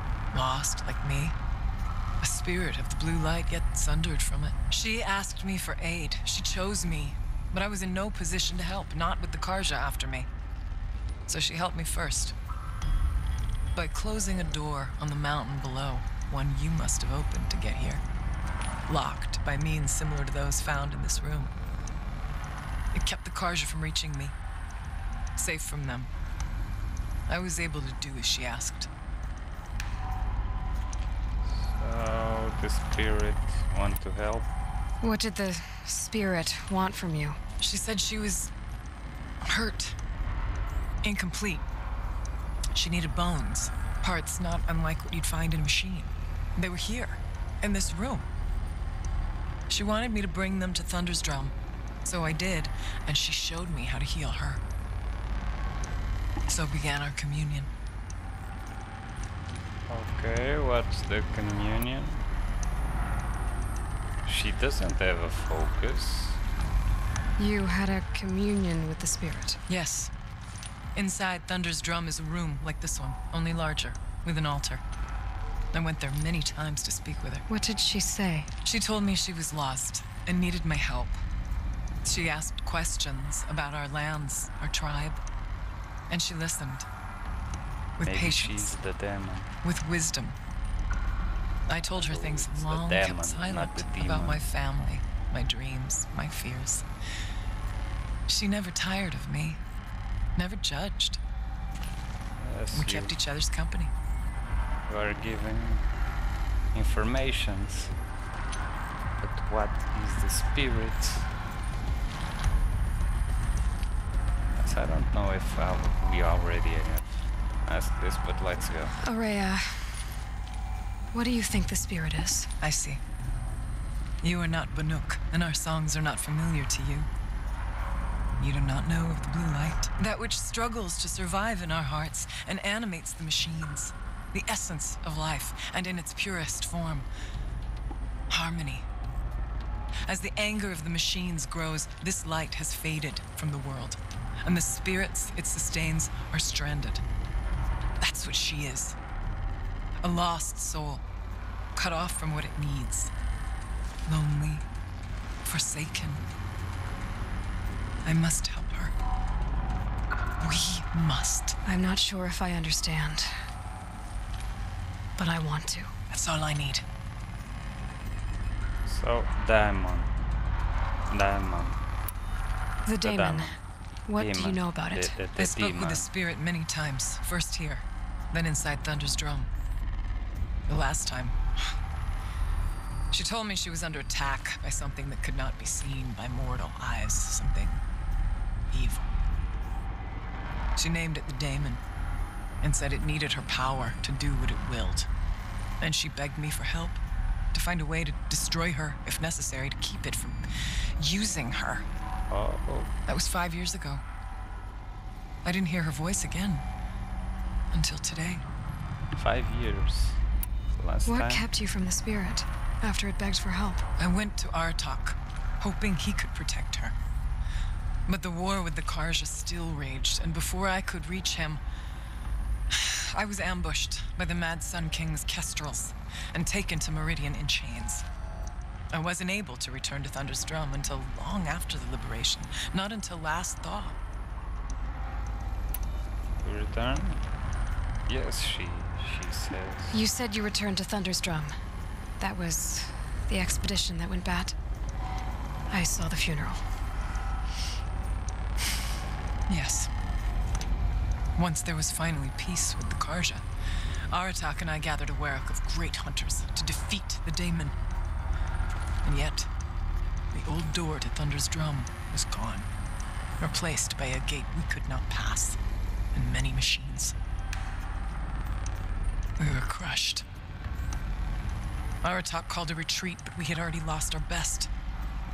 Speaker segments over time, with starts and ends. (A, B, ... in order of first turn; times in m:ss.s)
0:00.3-0:01.4 A
0:02.2-0:10.3 A
0:11.3-0:12.4 A
0:13.8-0:18.0 A
0:18.9-0:21.5 A
0:22.9-0:24.3 A
0:25.4-0:26.1 A
0:27.3-0:28.9 A
0:31.5-0:34.5 B
0:35.0-0:37.4 C
0:37.6-0:38.5 A
0:39.4-0:40.0 A
0:41.0-0:41.6 A
0:42.7-0:48.3 A
0:49.7-0:54.6 A
0:56.5-0:57.7 A
0:59.9-1:02.2 B
1:04.2-1:06.4 B
1:07.4-1:09.6 C
1:09.7-1:10.1 A
1:11.0-1:14.8 A
1:15.7-1:17.4 A
1:17.5-1:18.5 C
1:18.6-1:21.2 A
1:22.0-1:25.2 A
1:26.1-1:26.9 A
1:28.0-1:28.8 A
1:28.0-1:29.5 B
1:29.6-1:30.4 A
1:31.7-1:36.9 A
1:31.9-1:34.4 B
1:38.3-1:39.6 A
1:40.4-1:41.2 A
1:42.4-1:43.2 B
1:42.7-1:43.9 A
1:44.9-1:45.9 B
1:46.7-1:47.9 B
1:49.2-1:51.3 B
1:54.5-1:59.0 B
1:59.0-2:00.0 C
2:01.1-2:02.5 C
2:02.6-2:03.0 A
2:04.2-2:07.1 A
2:08.4-2:17.1 A
2:18.3-2:18.8 A
2:20.1-2:27.0 A
2:28.0-2:29.0 A
2:30.0-2:31.0 A
2:31.8-2:33.1 A
2:34.1-2:34.6 A
2:35.4-2:36.2 A
2:38.0-2:38.9 A
2:40.4-2:41.6 A
2:41.6-2:43.3 C
2:45.2-2:45.9 C
2:46.1-2:46.8 A
2:48.8-2:50.1 B
2:51.1-2:51.8 B
2:52.9-2:55.2 C
2:53.0-2:53.6 B
2:54.2-2:56.1 B
2:55.4-2:59.5 A
3:00.7-3:01.4 A
3:03.1-3:07.8 A
3:08.7-3:09.1 A
3:10.8-3:11.8 A
3:12.6-3:15.1 A
3:15.8-3:17.0 A
3:17.5-3:20.4 A
3:21.0-3:21.9 A
3:22.3-3:22.9 B
3:23.1-3:24.0 A
3:25.4-3:26.6 A
3:27.7-3:28.4 A
3:29.1-3:30.2 B
3:30.8-3:31.4 B
3:31.1-3:33.8 C
3:34.0-3:37.0 A
3:38.1-3:41.6 A
3:42.7-3:48.0 A
3:48.9-3:54.0 A
3:56.4-3:57.2 B
3:58.1-4:00.0 B
3:59.9-4:01.6 C
4:02.2-4:04.6 C
4:05.7-4:06.6 C
4:09.5-4:09.9 A
4:11.4-4:13.4 A
4:14.1-4:17.8 A
4:19.0-4:19.5 A
4:20.3-4:22.7 A
4:23.4-4:25.6 A
4:26.1-4:27.1 A
4:29.4-4:30.2 A
4:32.0-4:34.7 A